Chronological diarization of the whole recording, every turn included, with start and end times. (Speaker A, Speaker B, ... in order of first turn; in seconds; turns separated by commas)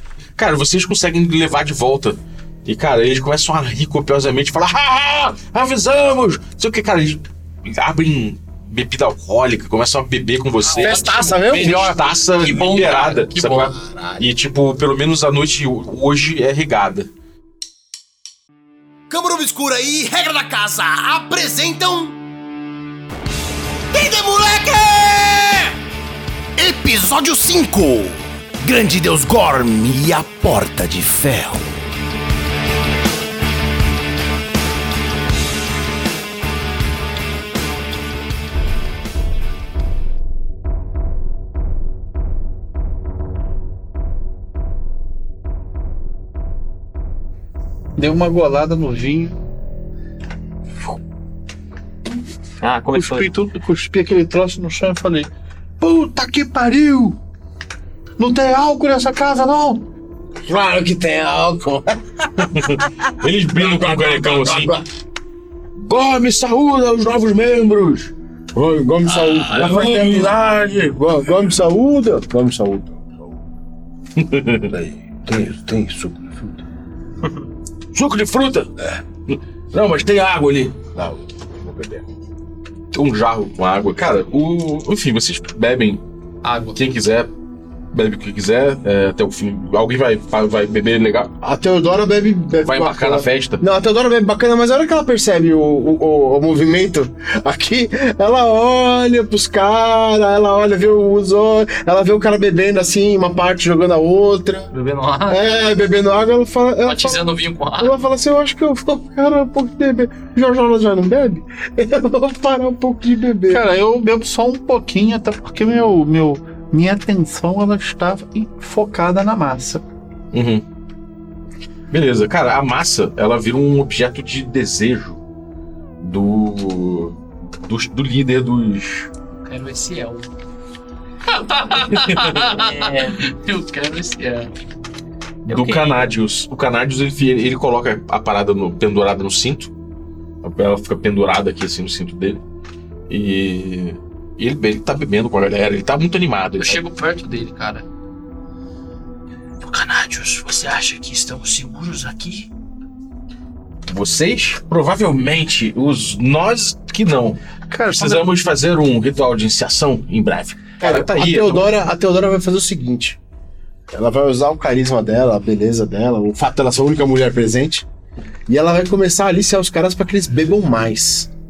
Speaker A: 0.4-17.1, Speaker B: 10.6-13.8, Speaker C: 10.8-11.8, Speaker D: 13.9-14.2, Speaker D: 19.1-22.2, Speaker D: 23.9-25.8, Speaker D: 26.6-31.8, Speaker E: 48.0-49.4, Speaker F: 52.6-53.3, Speaker E: 53.0-55.3, Speaker E: 55.8-57.2, Speaker E: 58.2-59.9, Speaker C: 60.5-62.8, Speaker A: 62.4-64.8, Speaker C: 63.5-64.8, Speaker A: 65.8-68.1, Speaker C: 68.5-70.3, Speaker A: 69.5-71.0, Speaker C: 70.9-73.4, Speaker A: 74.2-74.7, Speaker C: 74.7-76.6, Speaker A: 77.9-78.7, Speaker A: 79.3-81.0, Speaker C: 81.0-82.0, Speaker A: 82.9-86.0, Speaker B: 86.4-86.8, Speaker A: 86.8-87.3, Speaker A: 87.9-91.3, Speaker C: 91.4-104.7, Speaker A: 92.6-93.6, Speaker B: 104.7-105.4, Speaker C: 105.3-113.6, Speaker B: 106.8-108.0, Speaker E: 113.5-119.8, Speaker A: 120.3-120.6, Speaker A: 121.9-125.2, Speaker A: 126.0-129.1, Speaker B: 129.4-130.3, Speaker B: 131.3-134.5, Speaker F: 131.8-133.3, Speaker A: 135.5-139.7, Speaker F: 135.5-136.1, Speaker A: 140.4-142.4, Speaker A: 143.1-146.8, Speaker B: 146.6-147.9, Speaker B: 149.6-152.5, Speaker A: 153.9-161.7, Speaker E: 157.7-158.3, Speaker C: 160.8-163.2, Speaker C: 163.9-167.9, Speaker C: 168.5-171.3